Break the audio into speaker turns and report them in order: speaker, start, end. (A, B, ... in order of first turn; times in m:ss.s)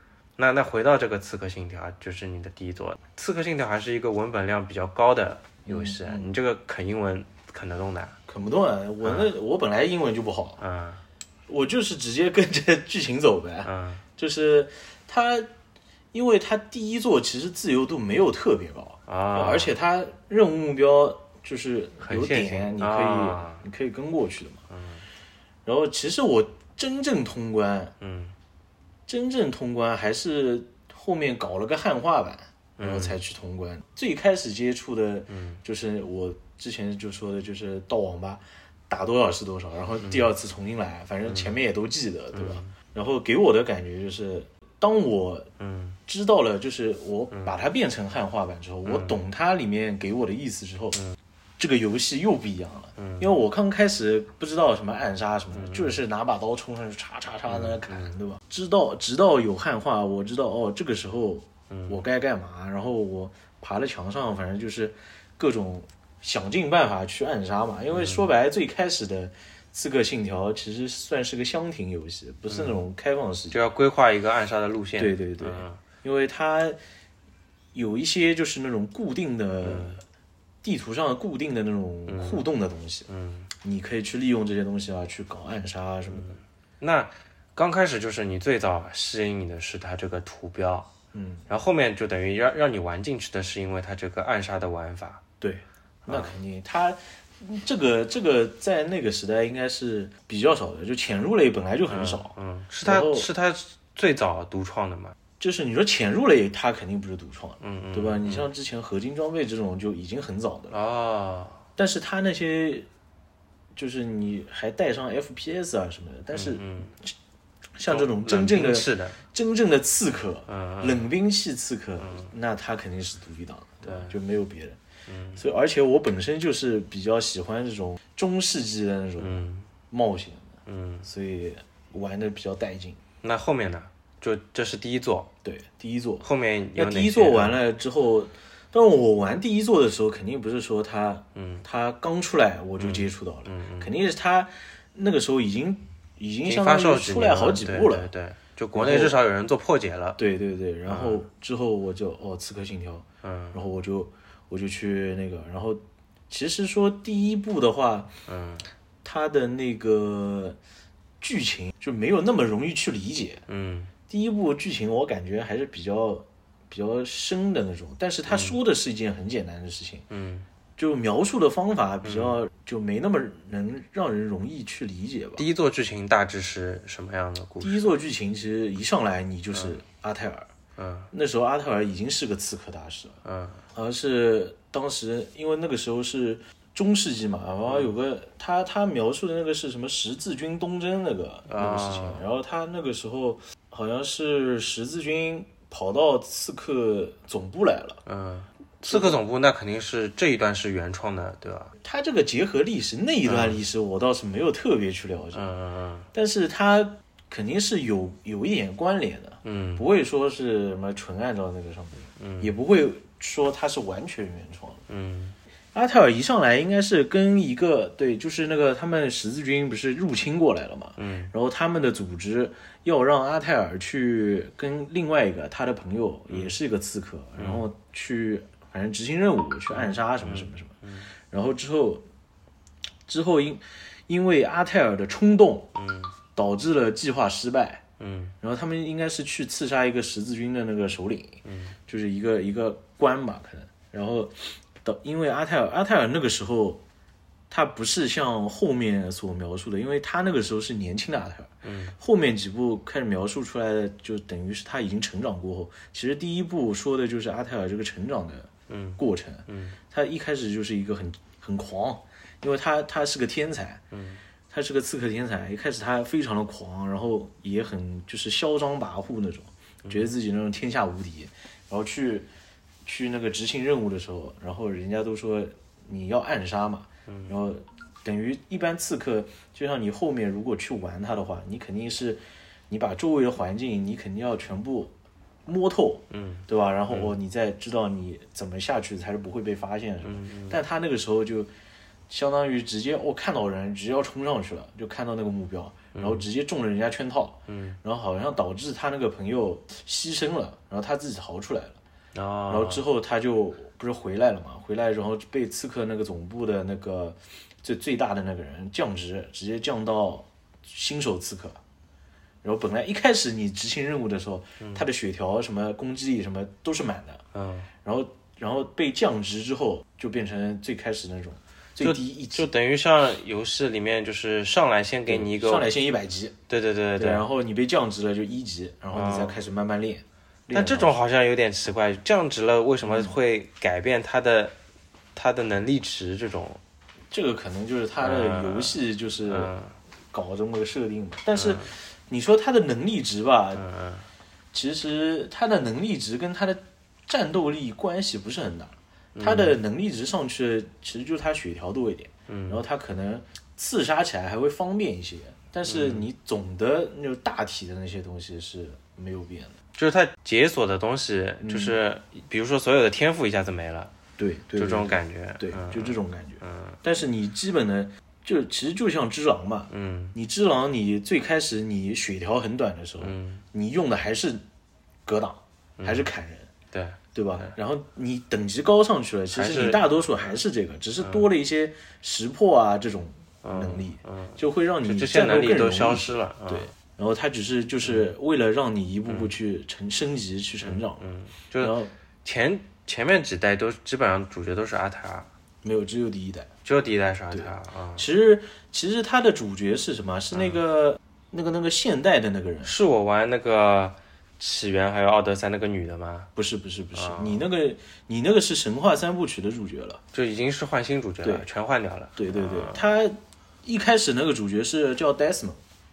0:00.4-0:08.2 A
0:05.6-0:06.3 B
0:08.3-0:10.6 B
0:09.0-0:09.3 A
0:10.6-0:11.0 A
0:11.5-0:15.5 B
0:13.6-0:14.0 A
0:16.1-0:24.6 B
0:19.1-0:19.7 A
0:22.0-0:23.6 A
0:24.7-0:25.0 A
0:25.6-0:27.9 B
0:28.0-0:28.3 A
0:29.1-0:45.5 B
0:32.8-0:33.2 A
0:35.3-0:35.6 A
0:40.0-0:40.3 A
0:41.2-0:41.6 A
0:42.3-0:42.7 A
0:45.6-0:46.0 A
0:46.1-0:51.0 B
0:51.6-1:13.6 B
0:53.0-0:53.3 A
0:55.6-0:55.9 A
0:57.5-0:58.1 A
1:07.9-1:08.2 A
1:13.5-1:15.8 A
1:15.0-1:16.8 B
1:17.7-1:20.0 B
1:19.6-1:20.0 A
1:20.6-1:23.1 B
1:22.1-1:22.4 A
1:23.1-1:23.5 A
1:23.6-1:26.4 B
1:26.8-1:30.9 A
1:31.1-1:31.4 B
1:31.5-1:35.2 A
1:35.4-1:43.3 B
1:36.0-1:36.3 A
1:41.9-1:45.2 A
1:45.4-1:50.7 B
1:47.6-1:48.5 A
1:50.7-1:51.6 A
1:51.8-1:52.9 B
1:53.7-1:57.1 B
1:56.3-1:56.9 A
1:57.8-2:04.8 B
1:57.9-1:59.2 A
2:00.5-2:01.1 A
2:03.8-2:04.1 A
2:05.1-2:05.4 A
2:05.4-2:13.0 B
2:09.2-2:09.6 A
2:10.6-2:11.0 A
2:13.2-2:15.3 A
2:15.4-2:28.1 B
2:16.2-2:17.6 A
2:21.3-2:21.6 A
2:22.8-2:23.9 A
2:26.4-2:30.2 A
2:28.7-2:29.2 B
2:30.2-2:38.1 B
2:30.9-2:31.2 A
2:33.2-2:33.6 A
2:38.2-2:38.7 A
2:39.0-2:40.6 B
2:41.2-2:43.4 B
2:43.5-2:43.9 A
2:44.1-2:50.0 B
2:50.1-2:50.5 A
2:50.8-2:55.4 B
2:52.0-2:52.4 A
2:55.4-2:57.9 A
2:57.6-3:00.5 B
3:00.8-3:01.1 A
3:01.1-3:03.2 B
3:03.2-3:03.6 A
3:03.7-3:18.0 B
3:11.5-3:12.2 A
3:18.0-3:21.7 A
3:18.9-3:19.2 B
3:21.8-3:25.4 B
3:23.2-3:23.6 A
3:25.3-3:26.1 A
3:26.1-3:34.8 B
3:29.4-3:29.8 A
3:32.2-3:32.5 A
3:34.9-3:35.4 A
3:35.7-3:50.8 B
3:41.0-3:41.3 A
3:47.4-3:47.6 A
3:49.7-3:51.1 A
3:51.3-3:52.0 B
3:53.1-3:55.7 B
3:55.8-3:56.1 A
3:56.4-3:57.8 B
3:58.0-3:58.3 A
3:58.4-4:06.8 B
4:01.4-4:01.8 A
4:07.5-4:23.8 B
4:11.6-4:11.9 A
4:18.7-4:19.8 A
4:23.9-4:24.2 A
4:24.5-4:32.3 B
4:32.8-4:44.9 B
4:37.1-4:37.3 A
4:45.4-4:51.5 B
4:46.1-4:47.1 A
4:50.0-4:50.6 A
4:52.1-5:01.8 B
4:55.9-4:56.2 A
4:57.5-4:57.8 A
5:02.1-5:02.8 A
5:02.5-5:11.6 B
5:12.4-5:17.2 B
5:17.3-5:17.7 A
5:17.8-5:22.5 B
5:21.8-5:25.7 A
5:25.1-5:26.4 B
5:26.5-5:27.3 A
5:27.0-5:30.9 B
5:28.9-5:29.4 A
5:30.5-5:34.6 A
5:32.8-5:33.1 B
5:35.1-5:36.6 A
5:37.1-5:39.5 B
5:38.0-5:39.7 A
5:40.1-5:43.6 B
5:41.4-5:41.7 A
5:43.6-5:44.0 A
5:44.5-5:59.5 B
5:49.1-5:49.6 A
5:52.3-5:52.6 A
5:55.6-5:56.1 A
5:59.8-6:03.9 A
6:01.4-6:01.8 B
6:04.2-6:14.4 B
6:04.6-6:06.8 A
6:09.7-6:10.1 A
6:13.0-6:13.4 A
6:15.0-6:16.5 B
6:15.8-6:16.1 A
6:16.7-6:17.5 A
6:17.1-6:31.0 B
6:19.3-6:19.8 A
6:23.4-6:26.7 A
6:30.6-6:35.3 A
6:31.6-6:31.9 B
6:35.6-6:36.5 B
6:36.6-6:38.0 A
6:37.3-6:42.7 B
6:40.3-6:40.6 A
6:42.6-6:46.3 A
6:46.4-6:50.0 B
6:46.9-6:47.5 A
6:50.1-6:52.8 A
6:52.2-6:55.6 B